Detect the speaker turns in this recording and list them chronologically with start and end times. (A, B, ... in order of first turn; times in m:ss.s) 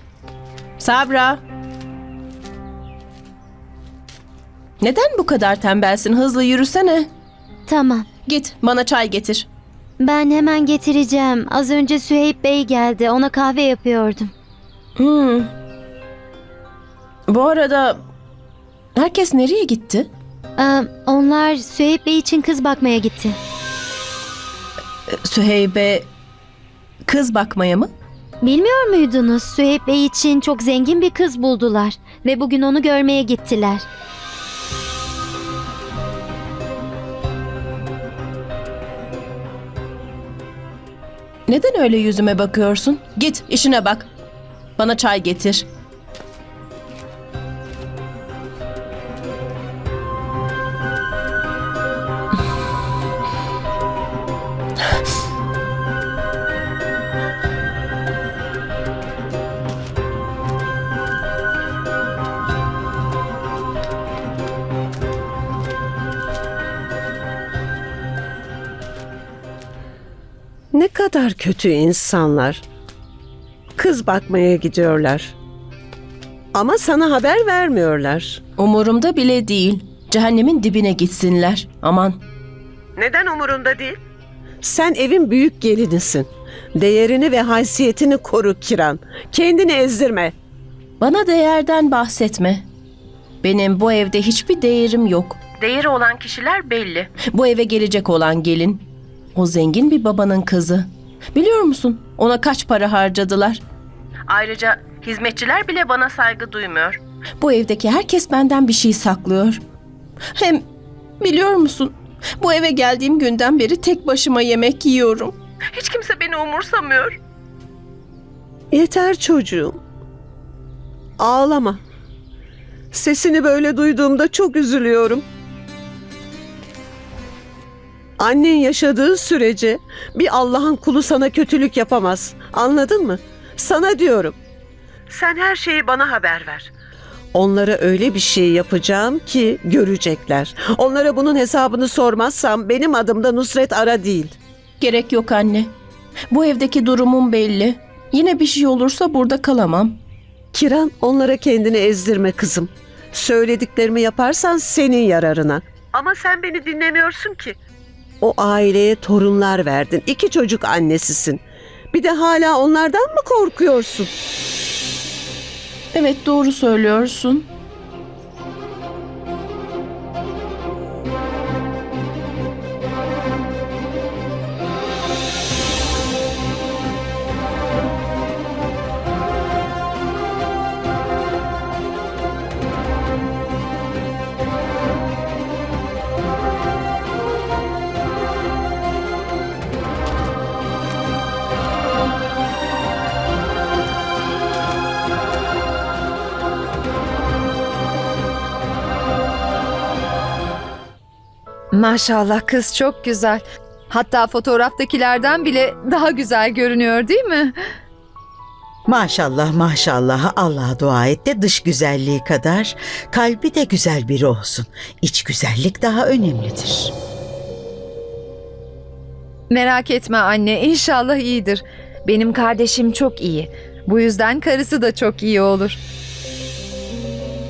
0:00.8-0:01.4 A
0:04.8-0:07.1 A
0:07.7-0:08.1 B
0:08.3-0:09.5 A
0:10.0-0:14.3 B
0:15.0-0:15.5 A
0:17.3-0:18.0 A
0:19.0-0:20.1 A
0:20.6-0:23.4 B
0:25.2-0:26.1 A
0:27.1-0:27.9 A
0:28.4-0:33.8 B
0:41.5-0:44.1 A
0:44.8-0:45.7 A
1:10.7-1:12.6 C
1:13.8-1:15.4 C
1:16.6-1:18.4 C
1:18.6-1:22.2 A
1:23.0-1:24.0 C
1:24.6-1:30.3 C
1:31.0-1:32.7 A
1:33.4-1:43.6 A
1:44.3-1:49.6 A
1:50.4-1:50.6 A
1:51.2-1:57.2 A
1:58.7-1:59.8 C
2:01.2-2:01.8 C
2:02.9-2:05.2 C
2:08.2-2:14.4 C
2:15.1-2:16.7 C
2:17.3-2:24.4 C
2:24.8-2:25.7 A
2:26.3-2:30.0 A
2:30.5-2:37.6 C
2:38.2-2:44.1 C
2:45.9-2:47.5 A
3:21.7-3:27.6 D
3:28.9-3:36.9 E
3:39.5-3:45.8 D